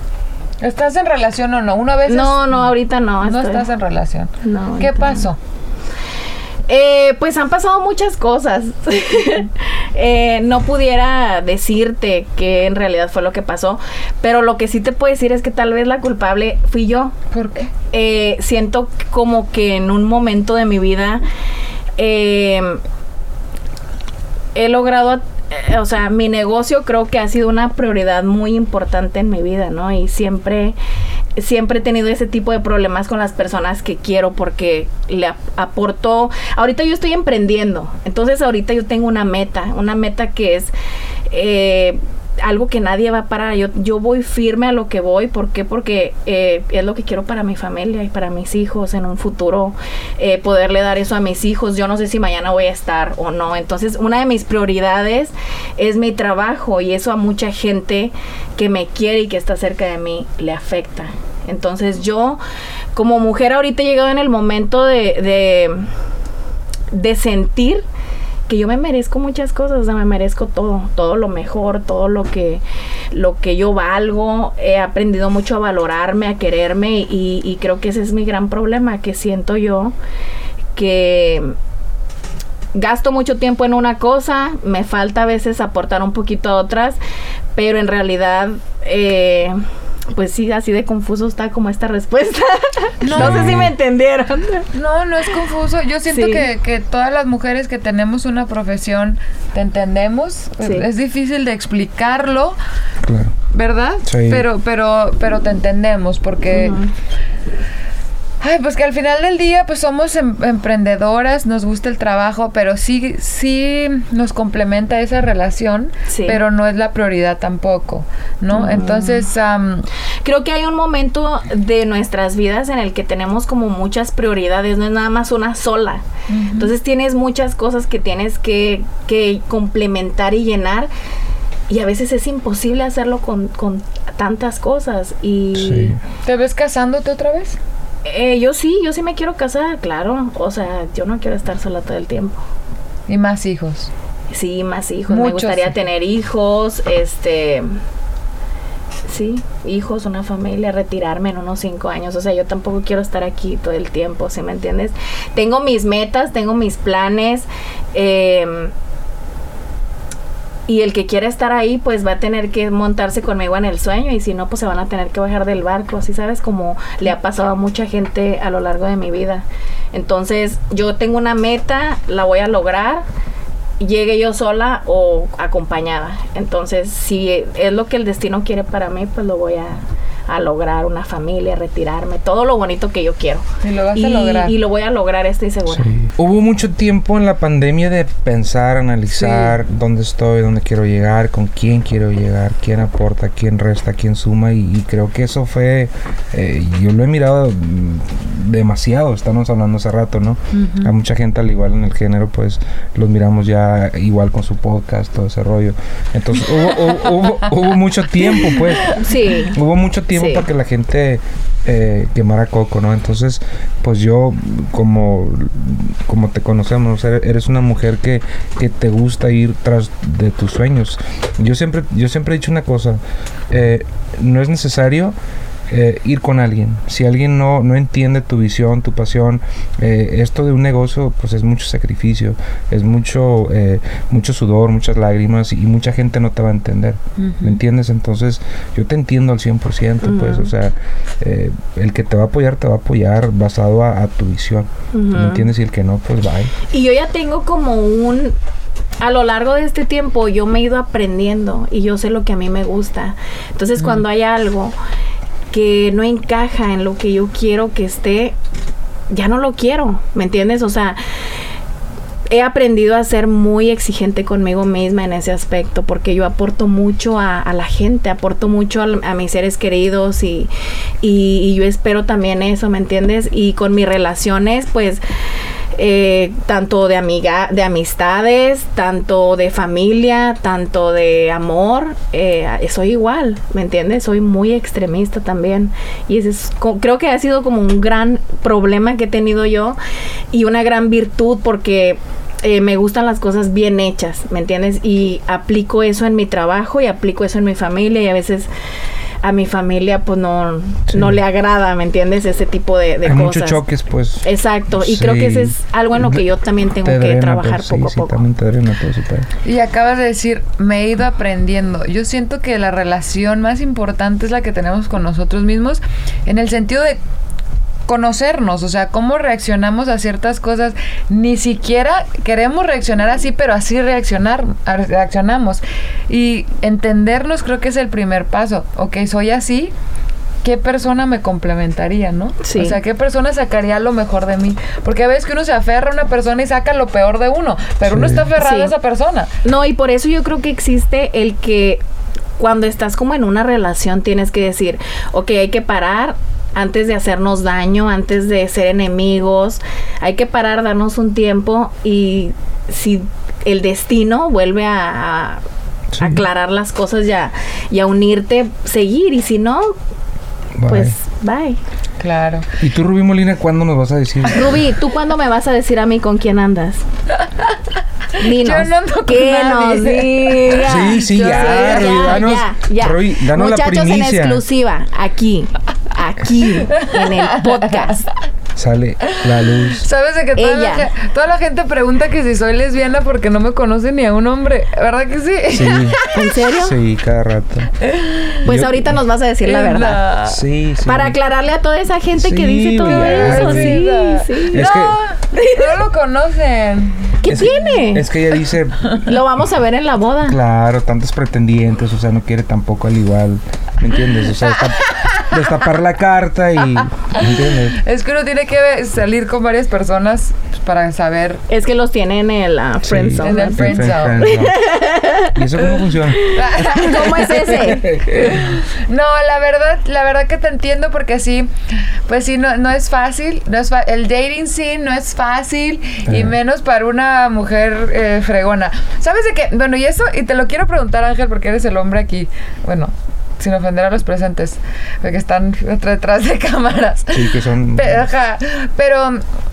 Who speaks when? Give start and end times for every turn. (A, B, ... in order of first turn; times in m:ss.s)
0:00.6-0:05.4 A
0:02.0-0:03.7 B
0:04.4-0:05.3 B
0:06.7-0:17.2 B
0:17.3-0:17.7 A
0:17.9-0:21.2 B
0:22.0-0:22.8 B
0:24.5-0:30.8 B
0:31.4-0:40.7 B
0:41.3-1:02.4 B
1:02.9-1:05.9 B
1:06.9-1:07.8 B
1:08.5-1:19.9 B
1:20.7-1:21.6 B
1:22.7-1:27.0 B
1:27.5-1:29.6 B
1:30.1-1:34.7 B
1:33.0-1:33.6 A
1:33.1-1:33.7 C
1:34.7-1:42.6 A
1:36.0-1:36.5 B
1:40.6-1:40.9 B
1:43.0-1:43.3 C
1:43.5-1:46.8 A
1:44.0-1:44.4 C
1:46.5-1:46.9 B
1:48.4-1:59.8 A
1:56.1-1:56.4 B
1:58.5-1:59.3 B
2:00.2-2:06.0 B
2:06.3-2:06.7 A
2:06.5-2:10.9 B
2:11.7-2:16.0 B
2:15.5-2:16.0 C
2:16.2-2:17.6 A
2:18.0-2:22.4 B
2:23.1-2:23.9 A
2:24.3-2:27.7 B
2:25.1-2:25.7 A
2:29.1-2:38.7 B
2:40.7-2:53.0 B
2:53.8-3:05.9 B
3:03.6-3:04.6 A
3:05.7-3:29.0 C
3:09.2-3:09.6 A
3:20.5-3:20.9 A
3:26.7-3:27.2 A
3:28.2-3:29.1 A
3:29.0-3:29.6 B
3:29.5-3:45.1 C
3:30.1-3:30.5 B
3:45.7-4:06.5 C
3:57.2-3:57.6 A
4:00.0-4:00.5 B
4:04.9-4:05.5 B
4:06.7-4:08.4 B
4:09.0-4:14.8 B
4:13.8-4:14.0 A
4:15.5-4:18.4 B
4:19.1-4:21.0 B
4:22.3-4:30.5 B
4:31.0-4:35.0 B
4:35.8-4:49.8 B
4:50.3-4:58.5 B
4:59.2-5:03.6 B
5:00.9-5:01.2 C
5:03.0-5:06.2 C
5:04.2-5:08.2 B
5:06.8-5:09.3 C
5:09.4-5:17.0 A
5:17.9-5:29.7 A
5:30.4-5:39.3 A
5:32.4-5:32.8 B
5:37.8-5:38.2 C
5:38.4-5:38.7 B
5:39.4-5:41.8 B
5:42.4-5:55.4 B
5:55.9-5:56.2 C
5:56.0-5:59.7 B
6:00.6-6:01.0 C
6:00.7-6:01.6 B
6:02.0-6:02.4 A
6:02.6-6:04.6 C
6:04.3-6:06.8 B
6:08.2-6:18.1 B
6:08.3-6:12.3 A
6:10.6-6:14.4 C
6:16.6-6:18.0 A
6:18.6-6:19.8 C
6:19.0-6:26.3 A
6:20.3-6:20.9 B
6:25.5-6:27.7 C
6:26.1-6:26.8 B
6:27.8-6:28.5 A
6:28.4-6:30.1 B
6:28.4-6:28.9 C
6:29.4-6:30.4 A
6:30.2-6:31.2 C
6:30.8-6:35.8 B
6:32.2-6:33.8 C
6:32.8-6:34.4 A
6:34.5-6:35.0 C
6:35.4-6:37.8 A
6:37.2-6:38.1 B
6:37.3-6:39.2 C
6:38.3-6:39.1 A
6:39.0-6:40.4 B
6:40.2-6:47.8 C
6:44.5-6:45.4 A
6:46.7-6:51.4 A
6:51.5-6:55.4 B
6:52.8-6:54.6 C
6:53.2-6:54.3 A
6:55.3-6:56.2 C
6:55.8-7:01.5 A
6:56.1-6:57.8 B
6:57.5-6:58.4 C
7:02.1-7:19.2 A
7:06.1-7:06.3 C
7:17.1-7:18.1 C